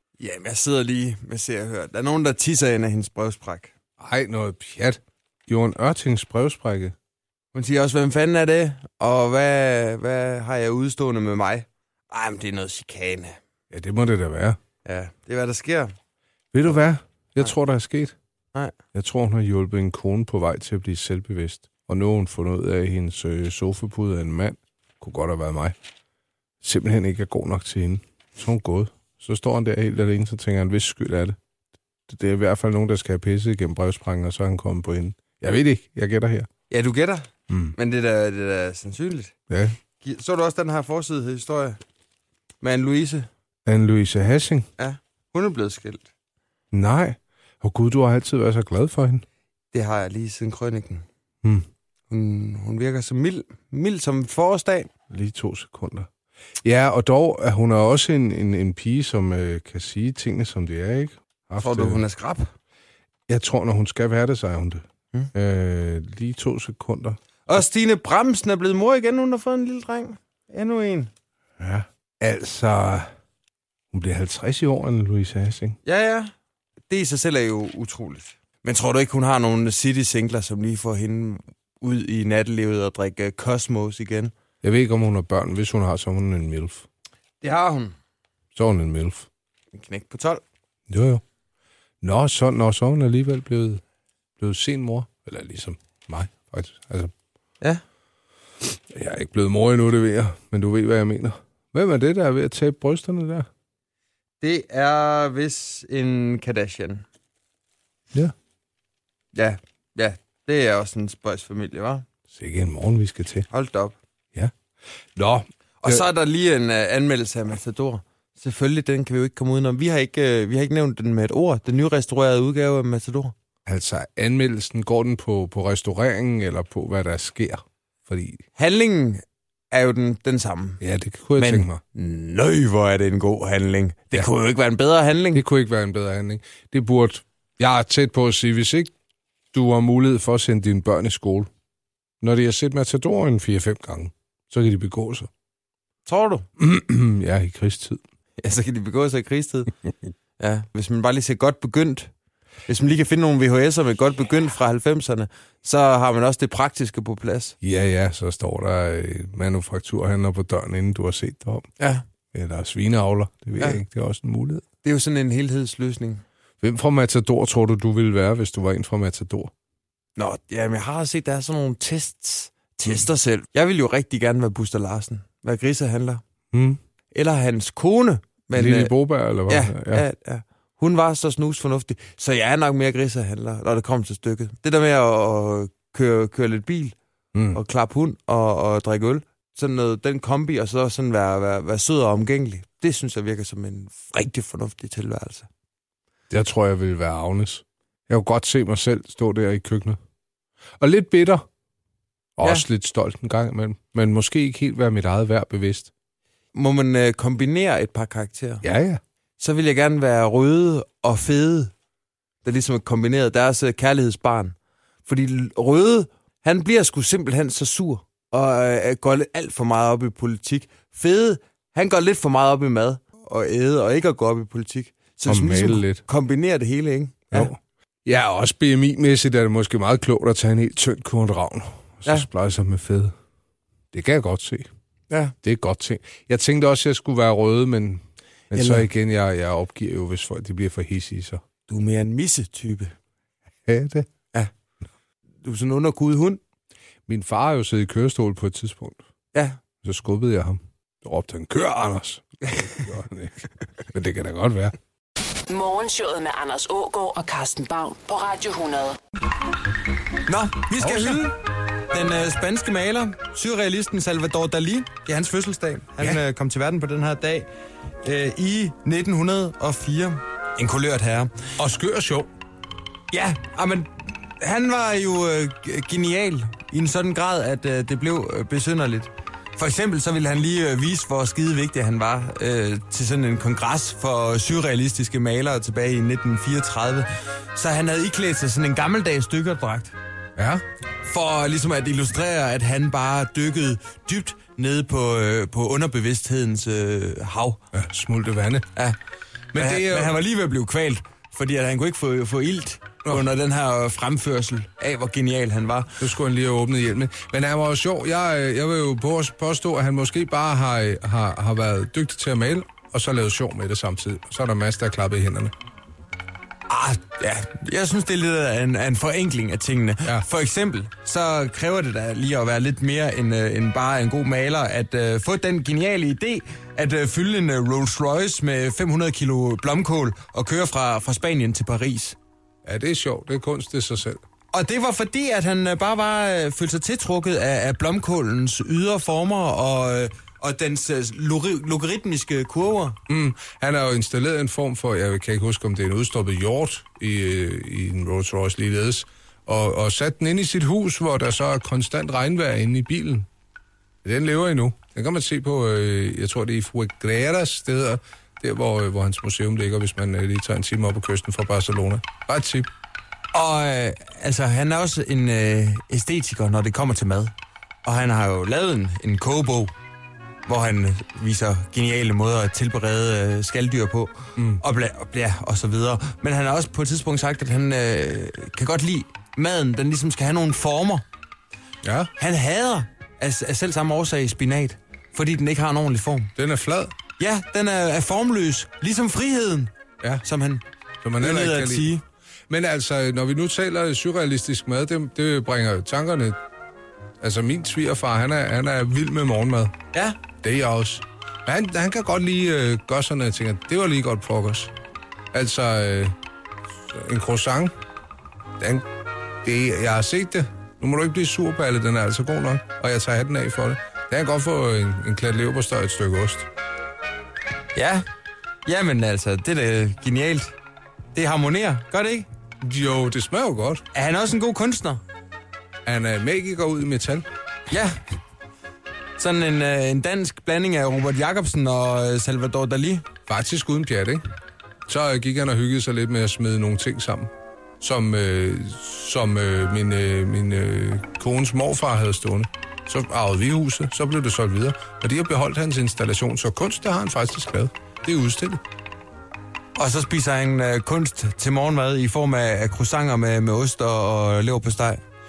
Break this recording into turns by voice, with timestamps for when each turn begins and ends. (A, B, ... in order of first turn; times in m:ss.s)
0:00.2-0:03.7 A
0:04.0-0:07.0 B
0:07.5-0:13.4 A
0:13.7-0:14.6 B
0:14.8-0:15.9 A
0:16.5-0:18.2 B
0:18.9-0:25.8 B
0:26.6-0:31.4 B
0:32.1-0:36.5 B
0:36.7-0:39.3 A
0:37.5-0:37.8 B
0:39.5-0:39.8 B
0:40.0-0:41.8 A
0:42.6-0:43.3 A
0:43.7-0:44.7 B
0:44.8-0:46.1 A
0:46.7-0:49.2 B
0:49.7-0:51.0 A
0:52.1-0:54.9 A
0:55.1-0:56.1 B
0:56.6-1:02.0 B
1:01.6-1:02.5 A
1:03.3-1:07.6 B
1:07.5-1:11.1 A
1:11.6-1:13.1 B
1:13.9-1:15.8 B
1:15.8-1:16.3 A
1:16.9-1:24.3 A
1:24.6-1:26.9 B
1:27.4-1:28.0 A
1:28.6-1:29.3 B
1:29.8-1:30.4 A
1:30.9-1:31.2 B
1:32.0-1:33.8 B
1:34.4-1:37.1 B
1:38.9-1:43.5 B
1:44.4-1:47.0 A
1:49.3-1:52.0 A
1:52.3-1:53.5 B
1:53.5-1:54.0 A
1:55.2-1:56.0 B
1:55.8-2:03.3 A
2:03.7-2:08.4 B
2:08.6-2:10.8 A
2:10.8-2:11.8 B
2:11.4-2:15.4 A
2:15.3-2:18.9 B
2:19.5-2:21.5 B
2:22.2-2:25.3 B
2:26.1-2:26.4 A
2:26.6-2:28.0 B
2:28.4-2:29.7 A
2:30.4-2:32.1 A
2:32.7-2:37.6 A
2:37.6-2:41.6 B
2:42.3-2:44.6 B
2:44.8-2:46.2 A
2:46.6-2:49.5 B
2:50.2-2:56.2 A
2:56.5-2:56.8 B
2:57.1-2:59.0 A
2:58.5-3:00.0 B
2:59.5-3:07.0 A
3:07.3-3:07.6 B
3:07.5-3:15.5 A
3:16.3-3:20.0 B
3:20.8-3:21.4 B
3:22.4-3:25.9 B
3:26.5-3:28.6 A
3:28.6-3:29.0 B
3:29.4-3:31.7 A
3:32.4-3:34.6 A
3:35.1-3:47.5 A
3:45.3-3:46.0 B
3:47.3-3:53.1 B
3:53.9-3:54.7 B
3:55.4-4:01.4 B
3:58.5-3:58.9 A
4:01.7-4:02.9 A
4:03.7-4:04.1 B
4:05.4-4:06.4 A
4:07.1-4:09.0 B
4:09.3-4:09.6 A
4:09.8-4:14.7 B
4:15.4-4:19.0 C
4:20.3-4:21.4 A
4:20.8-4:21.2 B
4:21.9-4:27.5 A
4:28.0-4:31.5 A
4:31.6-4:32.3 B
4:33.1-4:50.0 A
4:50.4-4:50.6 B
4:51.0-4:57.6 A
4:57.7-4:58.7 B
4:59.5-5:06.0 A
4:59.6-5:00.2 B
5:06.0-5:15.5 B
5:16.7-5:32.2 A
5:32.6-5:34.2 B
5:34.5-5:43.0 A
5:43.1-5:53.3 B
5:54.0-6:02.7 B
6:03.3-6:07.3 A
6:07.8-6:09.7 A
6:10.5-6:21.0 A
6:14.4-6:14.6 B
6:21.8-6:22.1 B
6:22.2-6:26.3 A
6:26.4-6:27.0 B
6:27.2-6:29.7 A
6:30.2-6:30.6 A
6:31.0-6:31.9 B
6:31.2-6:32.0 A
6:32.5-6:36.4 B
6:37.2-6:39.7 B
6:39.9-6:40.2 A
6:40.4-6:44.7 B
6:45.3-6:46.2 B
6:46.9-6:47.7 B
6:48.6-6:48.9 B
6:49.4-6:56.5 B
6:57.8-6:58.0 A
6:58.6-7:00.5 A
7:01.2-7:02.3 A
7:02.6-7:03.8 B
7:03.9-7:05.0 A
7:05.8-7:07.3 B
7:07.7-7:08.0 A
7:09.2-7:13.1 A
7:13.3-7:14.2 B
7:14.9-7:17.3 B
7:17.8-7:28.6 B
7:29.8-7:35.0 A